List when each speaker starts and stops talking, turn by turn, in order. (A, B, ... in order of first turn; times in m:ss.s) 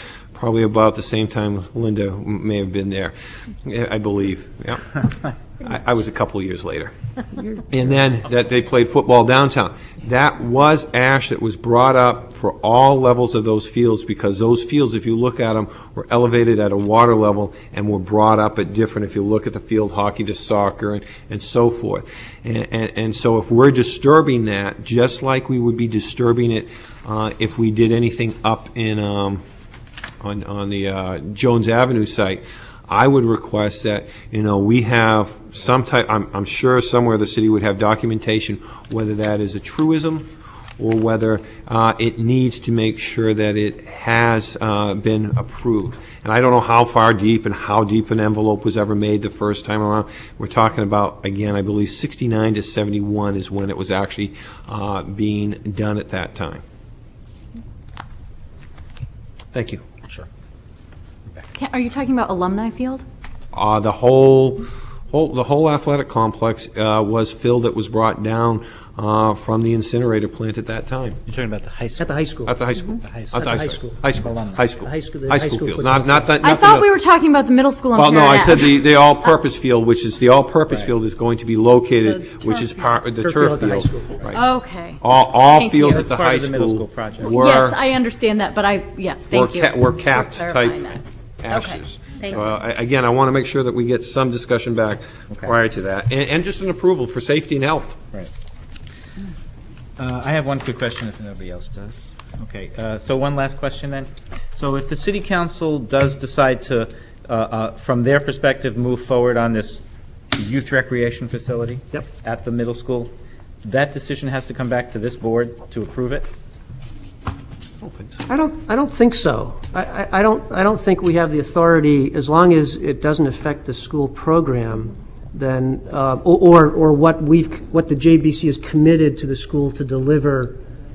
0:00.3-0:04.9 A
0:05.6-0:06.9 A
0:07.7-0:29.4 A
0:30.2-0:56.6 A
0:59.5-0:59.8 A
1:00.0-1:00.3 B
1:01.6-1:03.0 C
1:03.5-1:11.2 A
1:11.3-1:12.2 B
1:12.0-1:12.6 D
1:12.5-1:16.9 A
1:12.8-1:14.7 B
1:13.4-1:14.0 D
1:14.8-1:16.3 D
1:16.4-1:18.8 C
1:18.0-1:24.4 A
1:20.7-1:20.9 B
1:22.4-1:22.7 C
1:23.2-1:24.2 D
1:24.3-1:26.0 C
1:25.0-1:27.8 A
1:25.8-1:27.4 B
1:27.2-1:32.4 C
1:29.3-1:38.0 A
1:35.3-1:35.6 B
1:40.0-1:49.8 B
1:50.3-1:53.1 B
1:53.6-1:56.3 B
1:57.8-1:58.2 A
1:58.3-2:10.6 D